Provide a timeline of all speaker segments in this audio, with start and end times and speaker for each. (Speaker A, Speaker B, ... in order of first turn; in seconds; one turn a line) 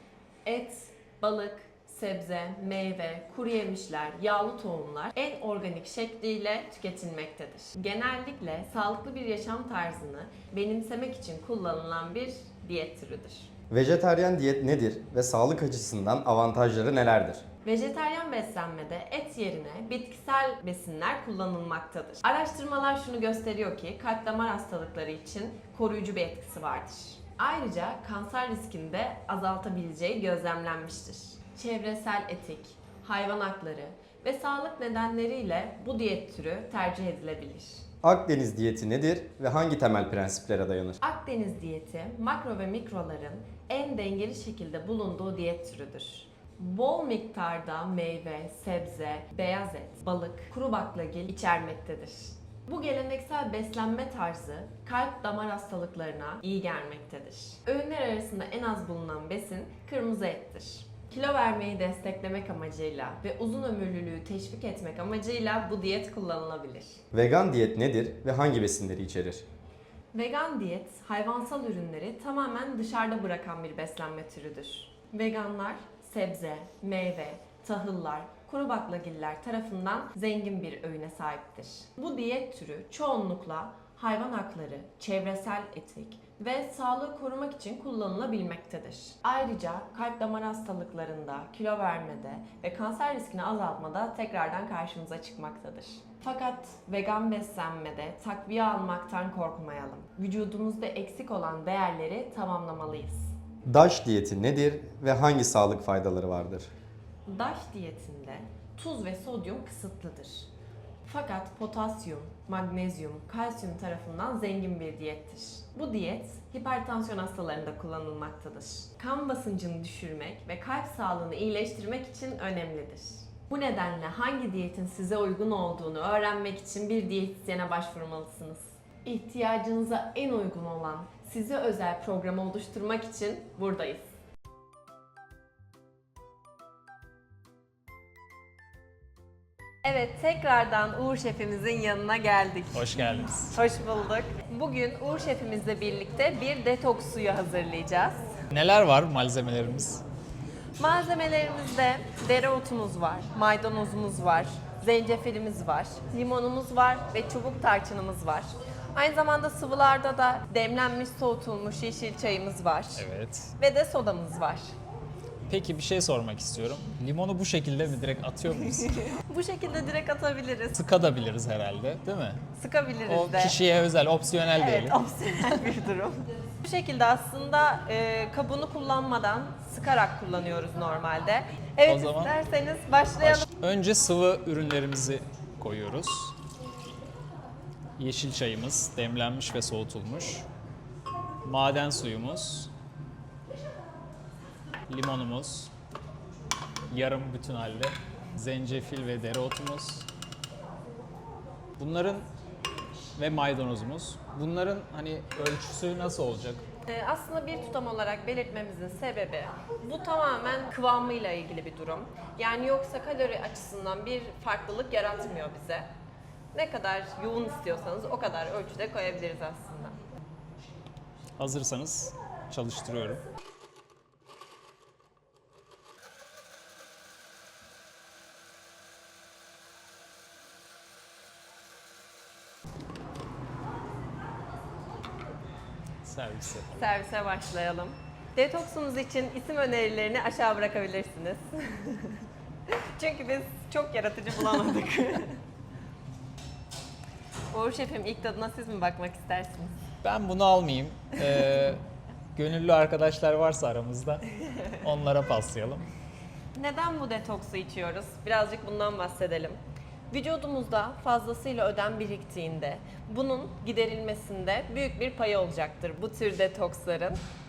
Speaker A: 0.5-13.5
Speaker B: 13.7-17.4
Speaker A: 17.6-37.9
Speaker B: 38.0-41.0
Speaker A: 41.0-67.0
Speaker B: 67.1-69.5
Speaker A: 70.1-103.3
Speaker B: 103.7-106.7
Speaker A: 107.3-110.5
Speaker A: 111.0-134.1
Speaker A: 139.8-148.3
Speaker C: 142.7-143.5
Speaker C: 148.5-150.0
Speaker A: 150.8-164.7
Speaker C: 163.0-163.5
Speaker C: 165.5-168.9
Speaker A: 168.8-170.8
Speaker C: 170.7-172.4
Speaker A: 172.5-173.6
Speaker C: 173.1-174.9
Speaker A: 174.6-183.5
Speaker C: 181.9-182.3
Speaker C: 183.2-186.3
Speaker C: 188.0-190.5
Speaker C: 191.4-192.7
Speaker C: 194.9-195.7
Speaker C: 196.9-200.1
Speaker C: 201.8-202.3
Speaker C: 203.2-206.6
Speaker A: 206.9-215.8
Speaker A: 216.5-220.0
Speaker C: 221.4-223.2
Speaker C: 236.0-236.8
Speaker A: 236.7-245.4
Speaker A: 247.5-249.8
Speaker C: 250.0-251.8
Speaker C: 252.3-255.9
Speaker A: 256.6-259.6
Speaker A: 260.1-267.2